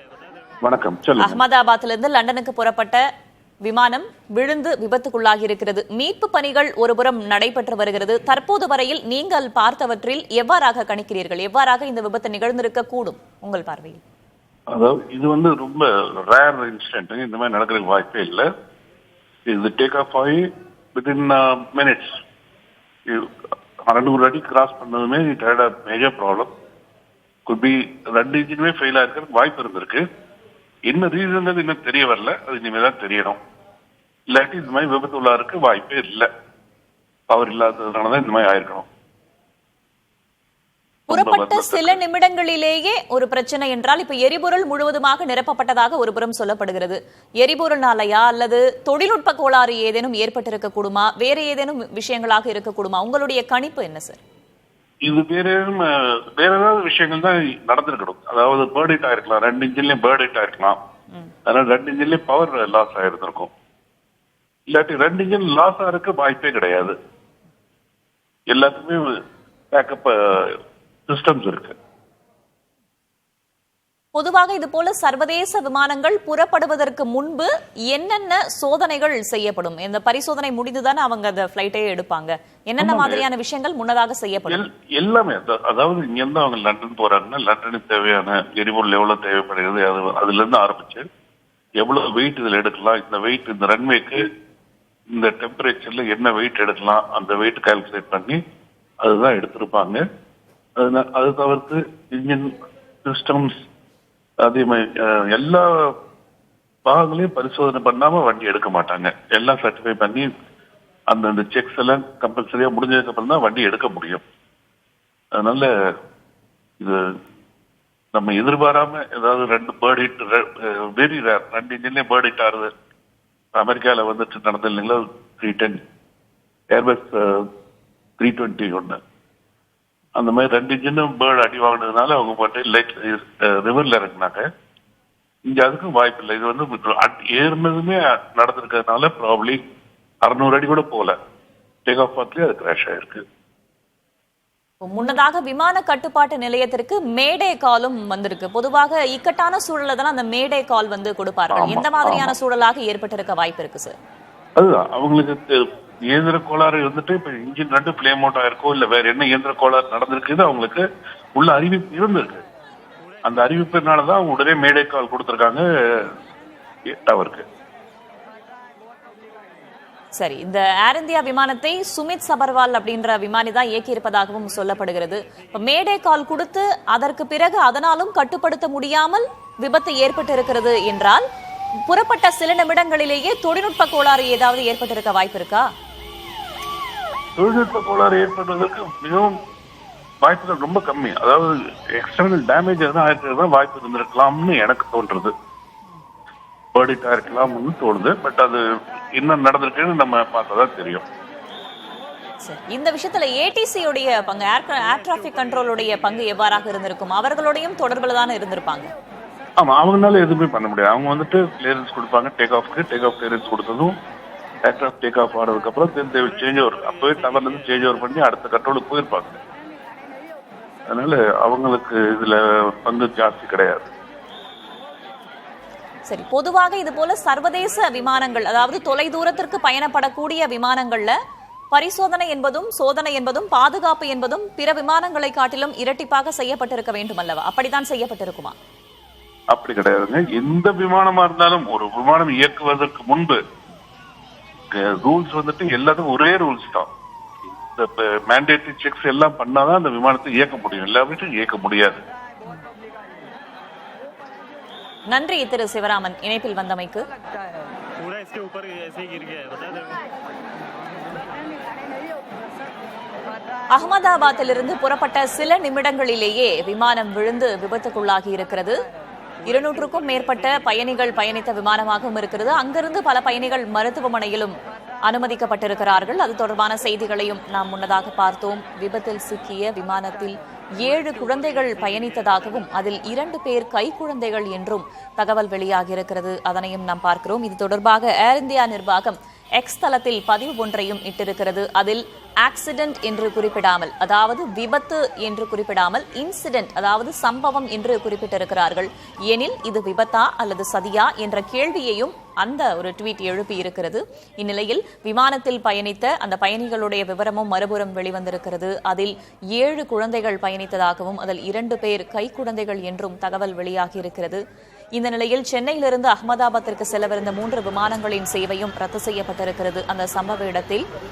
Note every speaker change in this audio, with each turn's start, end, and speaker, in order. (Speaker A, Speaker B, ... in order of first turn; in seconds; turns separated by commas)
Speaker A: 0.6-1.4, Speaker B: 1.2-3.0, Speaker B: 3.6-14.0, Speaker A: 14.7-18.5, Speaker A: 19.5-22.2, Speaker A: 23.1-23.3, Speaker A: 23.9-26.5, Speaker A: 27.5-30.1, Speaker A: 30.9-33.4, Speaker A: 34.3-36.3, Speaker A: 37.3-38.9, Speaker A: 41.1-42.0, Speaker B: 41.1-54.2, Speaker A: 55.1-60.8, Speaker A: 61.5-63.5, Speaker A: 64.7-67.0, Speaker A: 68.5-69.1, Speaker A: 69.7-71.8, Speaker B: 74.2-84.7, Speaker A: 82.8-83.3, Speaker A: 84.5-91.1, Speaker A: 91.8-94.2, Speaker A: 95.1-98.4, Speaker A: 99.0-100.0, Speaker A: 100.8-102.5, Speaker A: 103.0-103.5, Speaker A: 104.4-105.9, Speaker A: 106.9-110.3, Speaker A: 111.1-114.2, Speaker A: 115.4-115.7, Speaker A: 116.8-117.1, Speaker A: 118.1-122.7, Speaker A: 123.5-125.8, Speaker A: 126.7-127.5, Speaker A: 128.2-129.0, Speaker A: 130.2-134.5, Speaker A: 135.5-139.6, Speaker A: 140.3-141.2, Speaker A: 141.9-143.2, Speaker B: 144.8-153.9, Speaker A: 151.5-152.3, Speaker A: 154.6-160.8, Speaker A: 161.4-162.4, Speaker A: 163.2-166.1, Speaker A: 166.9-167.4, Speaker B: 170.2-181.2, Speaker B: 181.9-185.7, Speaker A: 187.4-189.3, Speaker A: 190.2-195.3, Speaker A: 196.8-198.6, Speaker A: 199.2-201.1, Speaker B: 202.4-208.9, Speaker A: 209.6-213.9, Speaker A: 214.7-219.4, Speaker A: 220.9-223.9, Speaker B: 226.1-231.1, Speaker B: 231.7-238.6, Speaker A: 239.5-243.4, Speaker A: 244.7-246.9, Speaker A: 247.7-252.0, Speaker B: 255.1-257.1, Speaker B: 263.8-268.8, Speaker B: 269.4-274.5, Speaker B: 275.1-314.4, Speaker B: 314.9-320.8